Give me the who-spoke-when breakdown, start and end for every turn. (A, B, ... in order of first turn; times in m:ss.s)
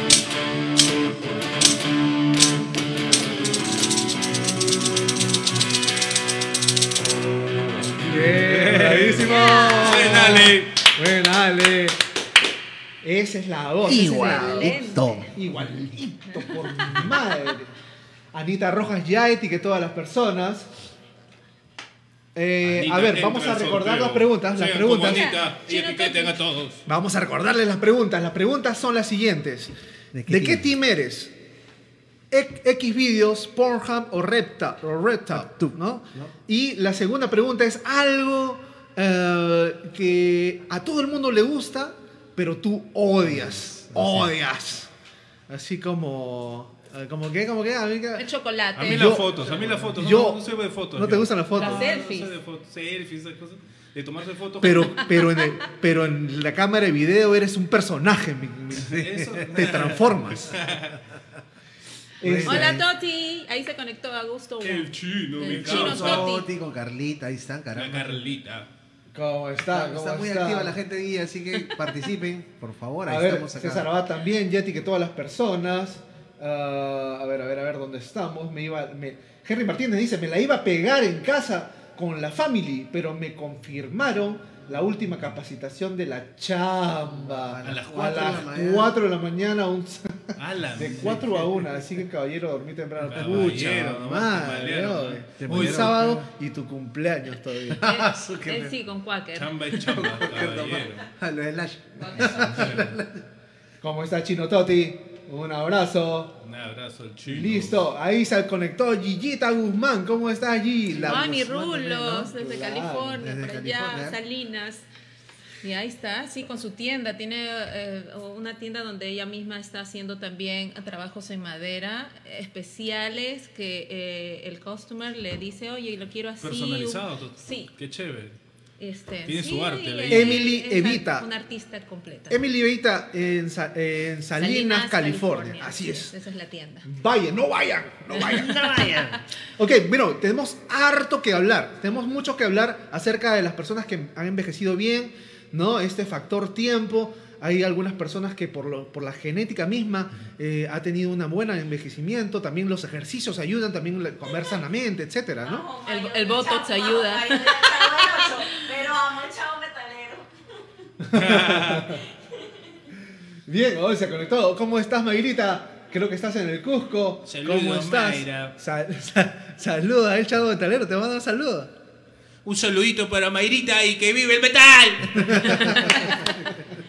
0:07.8-0:12.0 A
0:08.0-0:10.7 B
0:09.2-0:10.2 C
0:13.0-0:17.7 A
0:13.8-0:15.3 D
0:13.9-0:15.3 C
0:16.3-0:17.1 C
0:18.3-0:20.7 A
0:22.4-0:25.3 A
0:22.6-0:26.8 B
0:25.1-0:26.4 C
0:26.9-0:29.7 A
0:30.1-0:30.7 D
0:30.3-0:31.3 A
0:32.3-0:44.9 A
0:35.3-0:36.3 D
0:43.2-0:44.3 D
0:45.5-0:48.3 A
0:48.2-0:49.2 C
0:48.8-0:55.1 B
0:48.8-0:51.9 A
0:51.6-0:52.4 C
0:54.6-1:00.6 A
0:58.8-1:01.0 B
0:59.0-0:59.2 D
1:02.2-1:02.8 A
1:02.2-1:02.8 D
1:02.4-1:06.5 C
1:04.6-1:06.3 B
1:05.5-1:08.2 D
1:07.7-1:08.7 B
1:09.1-1:10.8 A
1:09.7-1:13.9 D
1:13.1-1:37.9 A
1:27.1-1:29.0 D
1:27.6-1:28.4 B
1:30.4-1:31.6 B
1:33.0-1:36.1 B
1:33.2-1:33.6 D
1:35.4-1:36.3 D
1:37.7-1:38.8 D
1:37.8-1:39.8 C
1:39.4-1:41.0 B
1:39.8-1:43.2 D
1:42.2-1:43.0 B
1:43.8-1:46.4 A
1:46.4-1:47.9 B
1:47.3-1:51.4 A
1:50.9-1:52.3 D
1:51.0-1:54.9 C
1:52.2-1:53.2 A
1:53.2-1:54.2 D
1:55.6-2:07.7 C
2:06.4-2:08.4 B
2:08.8-2:12.4 C
2:09.3-2:10.5 B
2:10.1-2:11.3 A
2:12.3-2:16.1 A
2:14.4-2:16.9 C
2:16.9-2:19.0 A
2:18.1-2:19.2 D
2:19.6-2:35.7 A
2:35.4-2:40.3 E
2:35.8-2:38.6 C
2:41.0-2:42.0 A
2:41.1-2:42.0 B
2:42.3-2:42.6 E
2:43.5-2:51.7 A
2:47.2-2:48.6 B
2:52.4-2:56.2 B
2:55.2-2:56.3 A